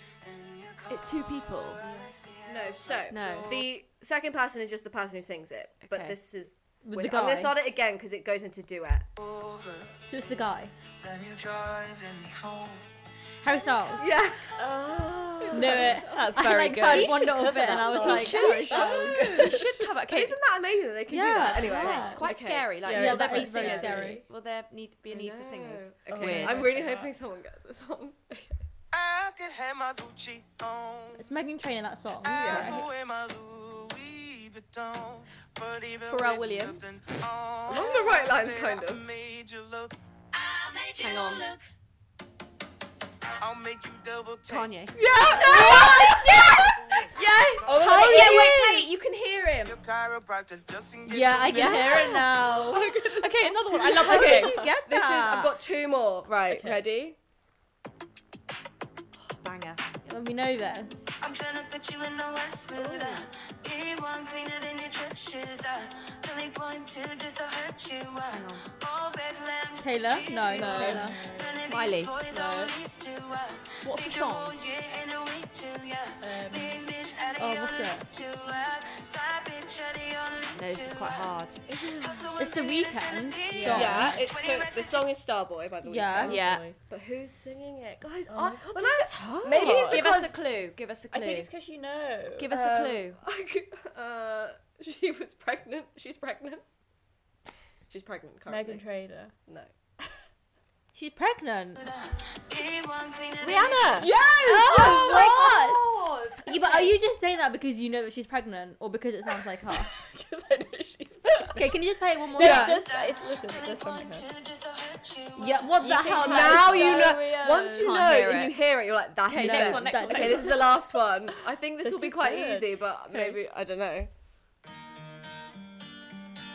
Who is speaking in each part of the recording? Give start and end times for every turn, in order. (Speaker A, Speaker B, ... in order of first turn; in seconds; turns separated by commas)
Speaker A: 0.2-3.1, Speaker B: 0.9-1.9, Speaker C: 2.5-9.1, Speaker B: 3.0-3.7, Speaker B: 5.9-6.2, Speaker D: 6.8-7.6, Speaker A: 9.2-10.0, Speaker D: 10.1-10.7, Speaker A: 11.0-12.9, Speaker D: 13.4-14.1, Speaker C: 14.0-16.5, Speaker E: 15.4-16.2, Speaker D: 15.5-19.6, Speaker B: 15.6-20.4, Speaker E: 16.7-19.7, Speaker C: 18.0-22.7, Speaker D: 21.1-22.3, Speaker B: 21.4-26.8, Speaker E: 22.8-24.2, Speaker D: 22.9-24.3, Speaker C: 25.1-28.5, Speaker E: 26.1-27.1, Speaker A: 28.9-31.3, Speaker D: 31.2-32.9, Speaker A: 32.2-40.0, Speaker C: 32.3-32.8, Speaker B: 36.1-37.0, Speaker C: 37.7-39.0, Speaker F: 40.3-41.6, Speaker B: 41.0-41.5, Speaker A: 43.4-48.0, Speaker B: 44.5-49.8, Speaker C: 44.9-47.1, Speaker C: 47.7-48.8, Speaker D: 47.8-48.6, Speaker E: 47.9-48.4, Speaker A: 49.6-52.2, Speaker D: 51.1-52.9, Speaker B: 51.5-54.8, Speaker C: 52.1-57.2, Speaker D: 53.8-55.6, Speaker E: 56.5-56.8, Speaker B: 59.3-59.9, Speaker D: 60.1-61.2, Speaker F: 61.2-85.1, Speaker C: 62.8-63.2, Speaker B: 68.3-68.7, Speaker D: 69.8-71.2, Speaker C: 70.6-71.1, Speaker E: 70.7-71.7, Speaker B: 71.7-72.7, Speaker B: 73.8-74.6, Speaker E: 76.2-76.8, Speaker D: 77.4-78.0, Speaker B: 80.5-81.6, Speaker C: 81.7-82.3, Speaker D: 82.4-84.1, Speaker E: 83.5-84.1, Speaker C: 83.7-90.4, Speaker B: 83.7-84.1, Speaker D: 85.8-86.4, Speaker E: 86.2-86.8, Speaker B: 86.2-86.7, Speaker E: 88.3-90.3, Speaker B: 89.4-91.5, Speaker E: 91.1-92.5, Speaker B: 92.4-93.2, Speaker C: 92.5-96.6, Speaker C: 97.9-98.8, Speaker E: 98.5-99.3, Speaker D: 100.9-101.8, Speaker F: 101.8-104.2, Speaker E: 103.4-104.1, Speaker B: 104.0-107.0, Speaker D: 104.2-109.9, Speaker C: 104.4-105.3, Speaker E: 109.6-111.6, Speaker D: 111.5-112.8, Speaker E: 112.3-114.3, Speaker B: 112.4-112.8, Speaker F: 112.4-115.9, Speaker D: 115.4-117.4, Speaker E: 115.8-118.1, Speaker B: 115.8-117.1, Speaker C: 116.2-124.1, Speaker B: 117.8-118.6, Speaker B: 119.3-120.8, Speaker D: 119.3-120.7, Speaker E: 121.8-123.4